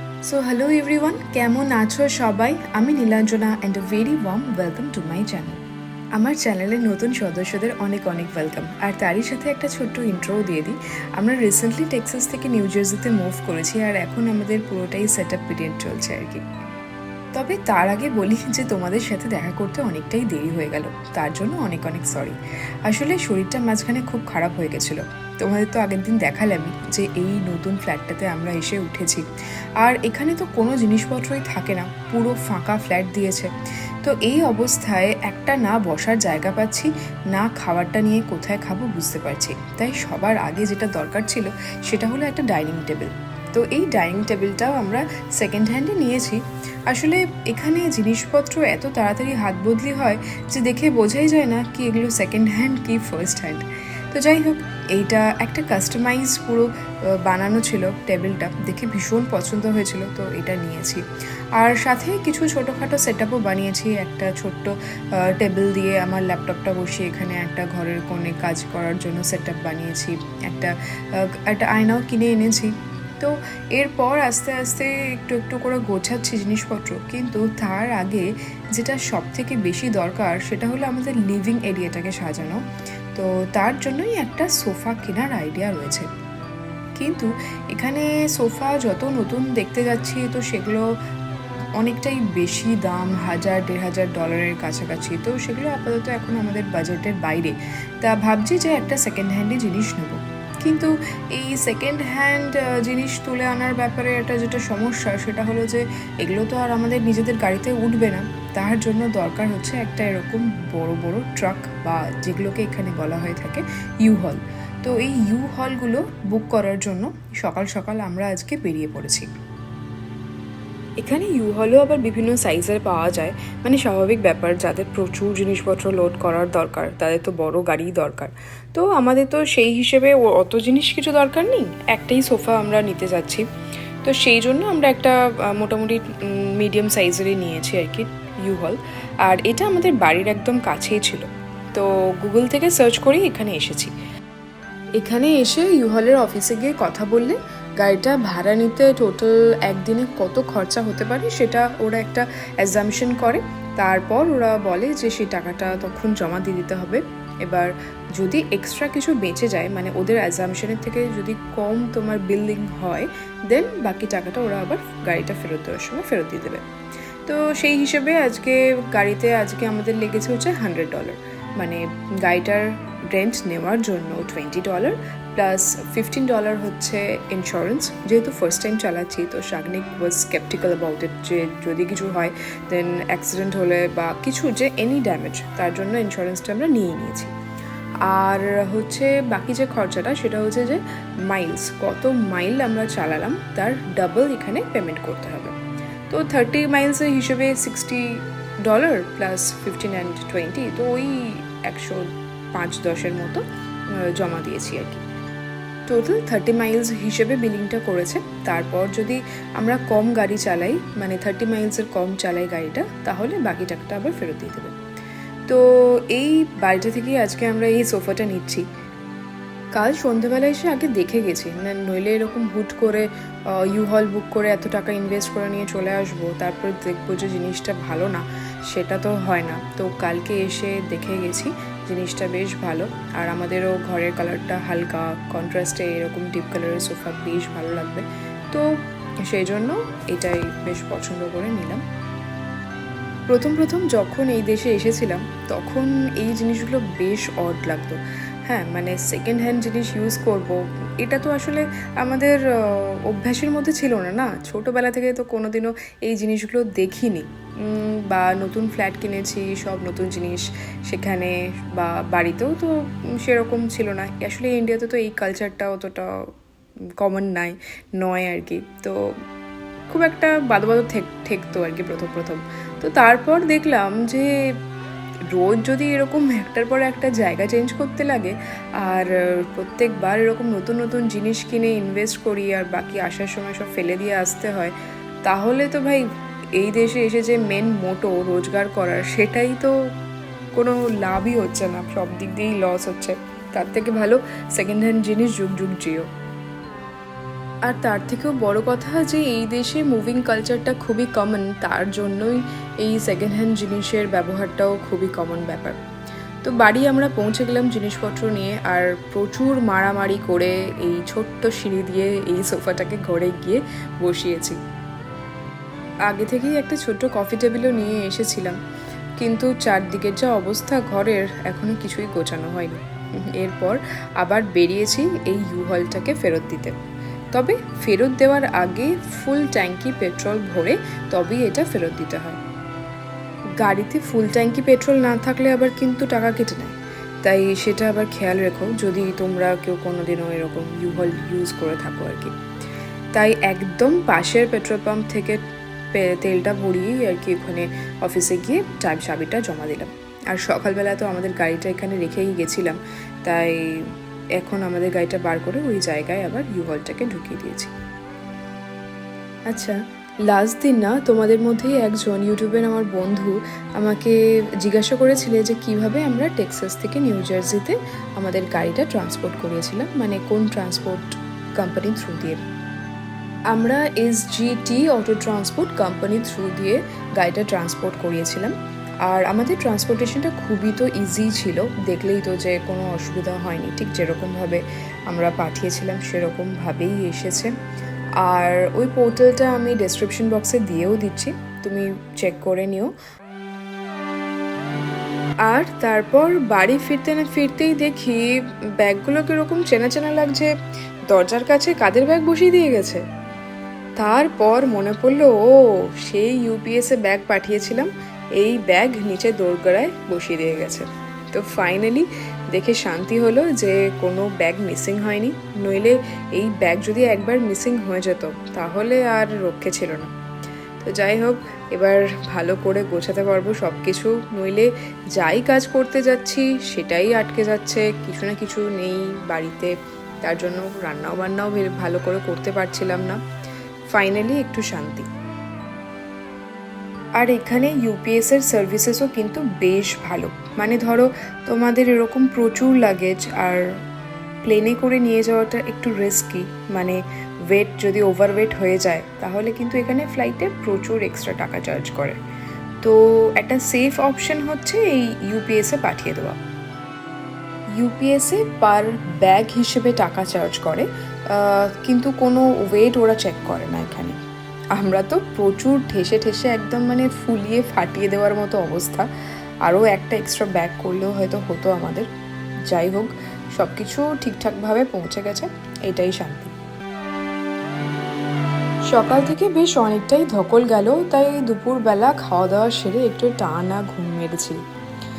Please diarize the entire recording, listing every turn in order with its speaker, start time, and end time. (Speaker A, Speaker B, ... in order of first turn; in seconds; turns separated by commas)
Speaker A: 0.3-5.6, Speaker A: 6.2-16.4, Speaker A: 17.3-29.3, Speaker A: 29.8-61.0, Speaker A: 61.6-82.6, Speaker A: 83.2-86.1, Speaker A: 87.0-90.9, Speaker A: 91.8-119.3, Speaker A: 121.0-133.5, Speaker A: 134.0-143.9, Speaker A: 145.0-166.7, Speaker A: 167.3-187.3, Speaker A: 188.0-195.6, Speaker A: 196.1-203.4, Speaker A: 204.2-205.0, Speaker A: 205.9-214.8, Speaker A: 215.5-218.7, Speaker A: 219.7-238.8, Speaker A: 239.3-241.8, Speaker A: 243.3-266.2, Speaker A: 267.0-269.1, Speaker A: 269.9-274.4, Speaker A: 275.3-284.7, Speaker A: 285.2-286.1, Speaker A: 286.6-289.8, Speaker A: 290.5-296.1, Speaker A: 297.7-305.8, Speaker A: 306.4-314.6, Speaker A: 316.1-318.6, Speaker A: 319.2-326.8, Speaker A: 327.3-332.4, Speaker A: 333.6-342.3, Speaker A: 343.1-345.4, Speaker A: 345.9-357.7, Speaker A: 359.5-372.4, Speaker A: 373.5-387.5, Speaker A: 388.2-392.9, Speaker A: 395.5-400.5, Speaker A: 401.1-403.0, Speaker A: 404.0-420.1, Speaker A: 420.8-433.2, Speaker A: 433.9-435.1, Speaker A: 437.2-443.7, Speaker A: 444.4-452.2, Speaker A: 452.8-456.4, Speaker A: 457.8-464.2, Speaker A: 464.7-469.1, Speaker A: 469.6-472.1, Speaker A: 472.7-476.5, Speaker A: 478.9-484.6